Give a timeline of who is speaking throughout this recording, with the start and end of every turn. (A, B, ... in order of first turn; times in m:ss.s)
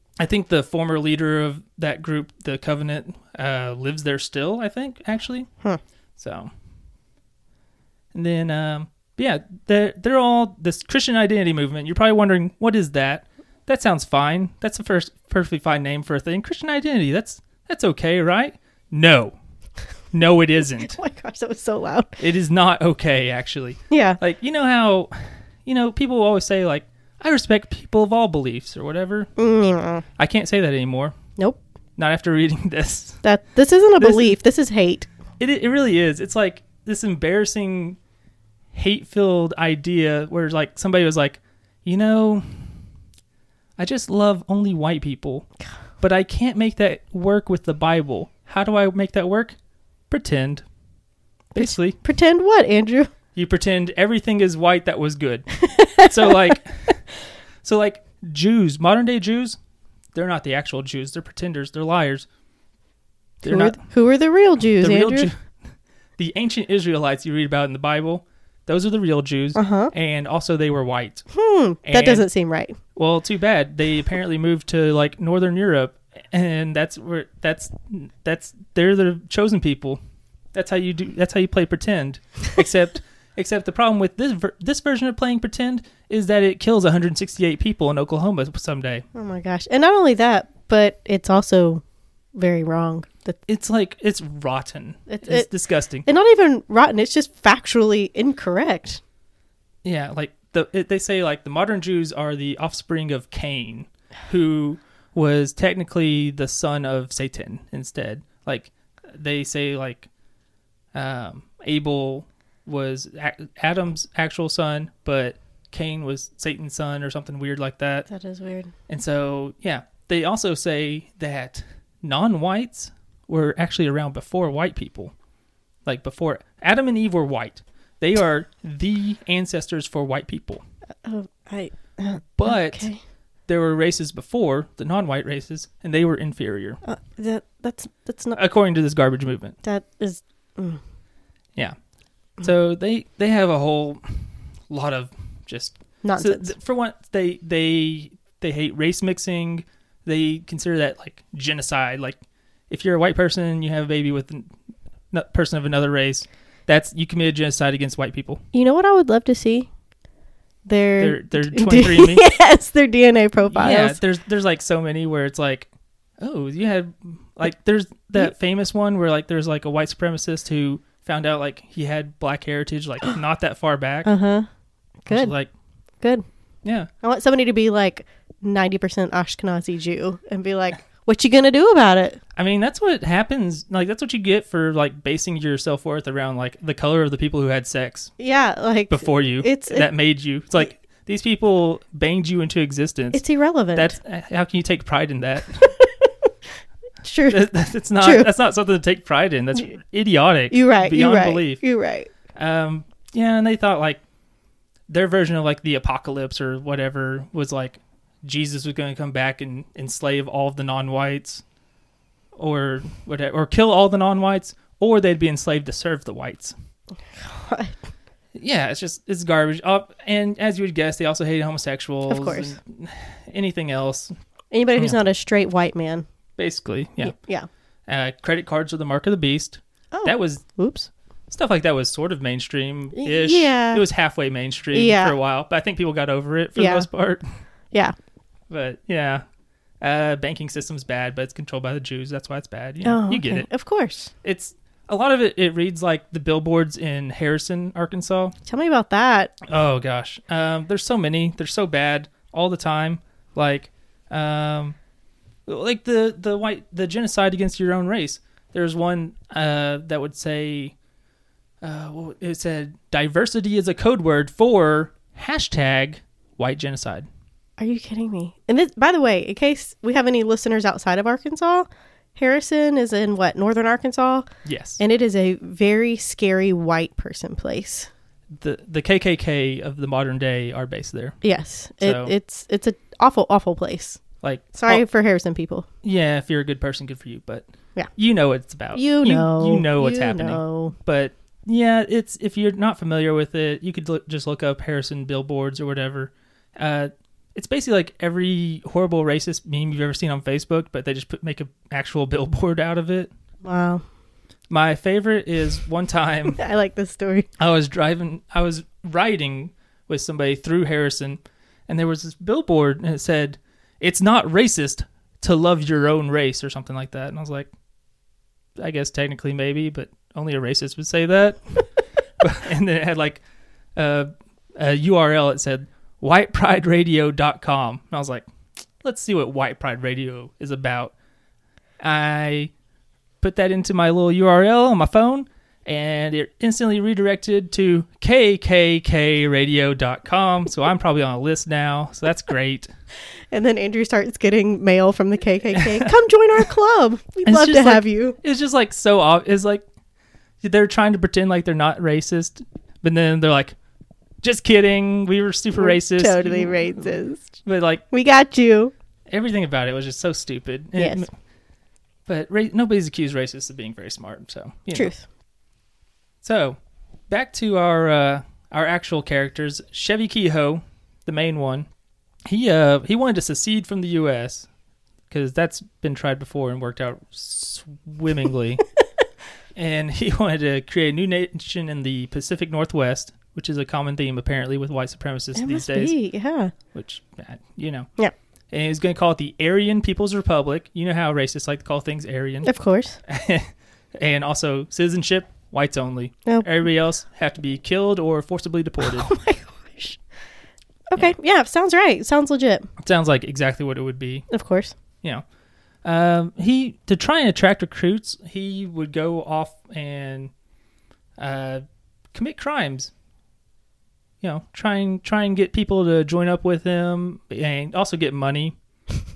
0:00.2-0:05.5 A
0:06.2-0:06.5 A
0:08.1-0:19.4 A
0:20.1-0:21.0 A
0:20.8-0:22.2 B
0:22.2-0:29.3 A
0:23.9-0:24.2 B
0:29.4-0:30.0 B
0:30.2-0:31.1 A
0:32.0-0:33.2 A
0:33.2-0:35.1 B
0:34.0-0:34.4 A
0:35.4-0:38.0 A
0:38.7-0:42.7 A
0:43.8-0:45.5 A
0:46.0-0:49.6 A
0:50.1-0:50.6 A
0:51.5-0:52.0 A
0:51.5-0:53.1 B
0:53.3-0:57.0 A
0:55.6-0:56.6 B
0:57.6-0:59.6 A
1:00.1-1:02.3 A
1:03.4-1:03.8 A
1:03.4-1:05.3 B
1:04.8-1:05.4 A
1:06.2-1:11.2 A
1:09.5-1:09.9 B
1:11.3-1:12.8 B
1:11.8-1:12.2 A
1:12.9-1:20.0 A
1:20.5-1:29.0 A
1:29.1-1:31.8 B
1:32.3-1:33.4 B
1:33.5-1:36.0 A
1:35.1-1:35.5 B
1:36.0-1:39.0 B
1:39.8-1:50.1 A
1:50.9-1:58.1 A
1:58.1-1:58.7 B
1:58.9-2:05.1 A
2:05.8-2:10.6 A
2:11.0-2:13.0 B
2:12.4-2:12.9 A
2:13.5-2:16.8 A
2:16.8-2:18.4 B
2:18.4-2:19.6 A
2:19.6-2:20.8 B
2:22.4-2:34.5 A
2:26.0-2:26.5 B
2:35.1-2:38.4 A
2:38.5-2:39.7 B
2:40.6-2:44.0 B
2:41.0-2:42.2 A
2:43.5-2:45.7 A
2:46.2-2:54.1 A
2:54.0-2:54.5 B
2:55.0-2:55.3 B
2:55.1-2:55.5 A
2:56.6-2:56.9 A
2:57.0-3:02.2 B
3:02.3-3:08.1 A
3:08.2-3:09.9 B
3:08.9-3:13.2 A
3:13.1-3:14.0 B
3:13.7-3:15.8 A
3:15.7-3:16.1 B
3:17.0-3:17.5 B
3:17.3-3:21.6 A
3:18.0-3:18.3 B
3:20.5-3:22.1 B
3:22.3-3:24.0 A
3:24.9-3:31.4 A
3:32.3-3:36.5 A
3:37.1-3:37.8 B
3:38.4-3:44.1 A
3:42.1-3:42.5 B
3:44.5-3:46.0 B
3:46.4-3:47.1 A
3:47.0-3:47.5 B
3:47.9-3:50.4 A
3:49.9-3:50.9 B
3:51.3-3:57.2 A
3:52.9-3:53.8 B
3:54.7-3:55.2 B
3:56.6-3:56.8 B
3:58.5-3:59.2 A
3:59.8-4:03.5 A
4:02.8-4:04.1 B
4:04.2-4:08.3 A
4:08.4-4:09.3 B
4:09.4-4:14.8 A
4:15.4-4:20.7 A
4:21.6-4:27.1 A
4:27.6-4:37.9 B
4:34.4-4:34.8 A
4:38.3-4:41.2 A
4:41.2-4:44.0 B
4:41.8-4:42.1 A
4:44.2-4:44.8 A
4:44.5-4:45.6 B
4:45.8-5:03.1 A
4:48.7-4:50.7 B
5:03.4-5:03.8 B
5:04.5-5:06.4 A
5:06.3-5:07.3 B
5:07.4-5:17.5 A
5:18.6-5:21.7 A
5:22.2-5:23.2 A
5:23.8-5:28.2 A
5:28.8-5:30.9 A
5:31.8-5:32.5 A
5:33.2-5:42.7 A
5:43.3-5:48.2 B
5:45.5-5:45.9 A
5:47.2-5:49.6 A
5:50.4-5:53.6 A
5:54.2-5:57.8 A
5:55.6-5:57.3 B
5:57.9-5:58.7 B
5:59.1-6:01.1 A
6:00.8-6:01.0 B
6:02.1-6:04.9 A
6:04.7-6:05.0 B
6:06.2-6:06.6 A
6:07.1-6:11.7 A
6:12.3-6:14.5 A
6:15.1-6:18.6 A
6:19.5-6:25.9 A
6:25.4-6:26.5 B
6:26.7-6:27.9 A
6:28.5-6:32.5 A
6:32.4-6:33.0 B
6:33.1-6:39.1 A
6:38.8-6:40.0 B
6:40.9-6:42.7 B
6:42.8-6:44.3 A
6:44.3-6:44.7 B
6:45.8-6:50.3 A
6:51.2-6:51.6 A
6:52.1-6:52.9 A
6:54.2-6:58.6 A